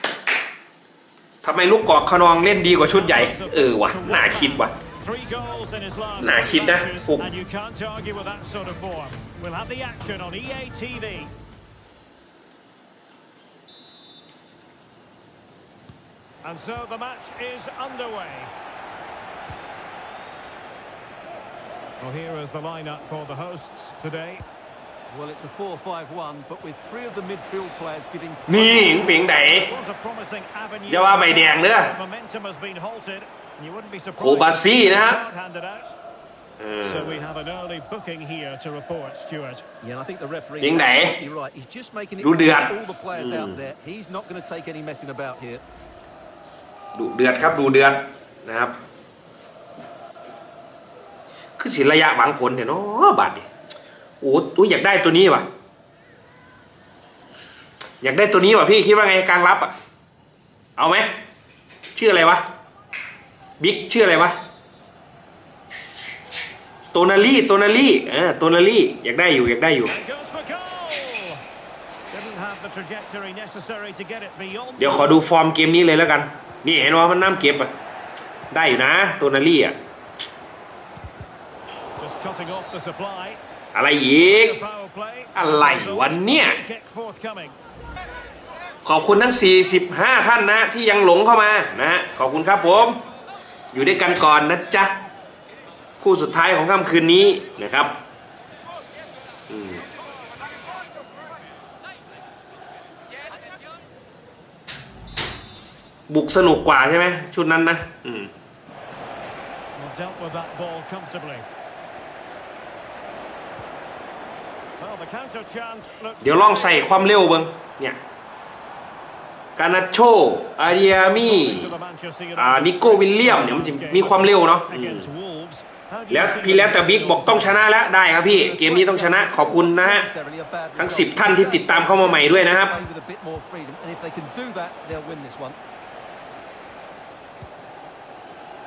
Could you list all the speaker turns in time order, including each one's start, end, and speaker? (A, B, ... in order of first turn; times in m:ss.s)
0:01.4-0:04.7 A
0:02.9-0:11.3 B
0:06.2-0:07.3 A
0:16.4-0:18.5 B
0:22.0-0:24.4 B
0:25.1-0:28.9 C
0:28.5-0:29.7 A
0:29.3-0:36.0 B
0:30.9-0:32.0 A
0:34.2-0:35.2 A
0:36.6-0:37.2 A
0:36.8-0:39.7 B
0:39.8-0:45.6 C
0:40.6-0:41.2 A
0:42.2-0:43.6 A
0:47.0-0:48.8 A
0:51.6-0:53.5 A
0:54.2-0:55.5 A
0:58.0-0:59.7 A
1:00.8-1:01.1 A
1:02.0-1:02.4 A
1:03.6-1:04.4 A
1:06.9-1:10.0 A
1:09.9-1:11.4 B
1:12.1-1:15.2 B
1:14.8-1:17.7 A
1:18.5-1:19.8 A
1:22.0-1:23.4 B
1:23.7-1:24.6 A
1:24.2-1:27.6 B
1:25.4-1:26.6 A
1:28.8-1:33.0 A
1:33.7-1:34.9 A
1:36.0-1:38.0 A
1:39.5-1:39.8 A
1:46.1-1:48.3 A
1:49.8-1:51.5 B
1:54.8-1:56.8 B
1:56.2-1:58.0 A
1:59.6-2:01.7 A
2:00.7-2:07.6 B
2:02.4-2:05.1 A
2:06.1-2:10.1 A
2:08.2-2:15.6 C
2:10.8-2:12.8 A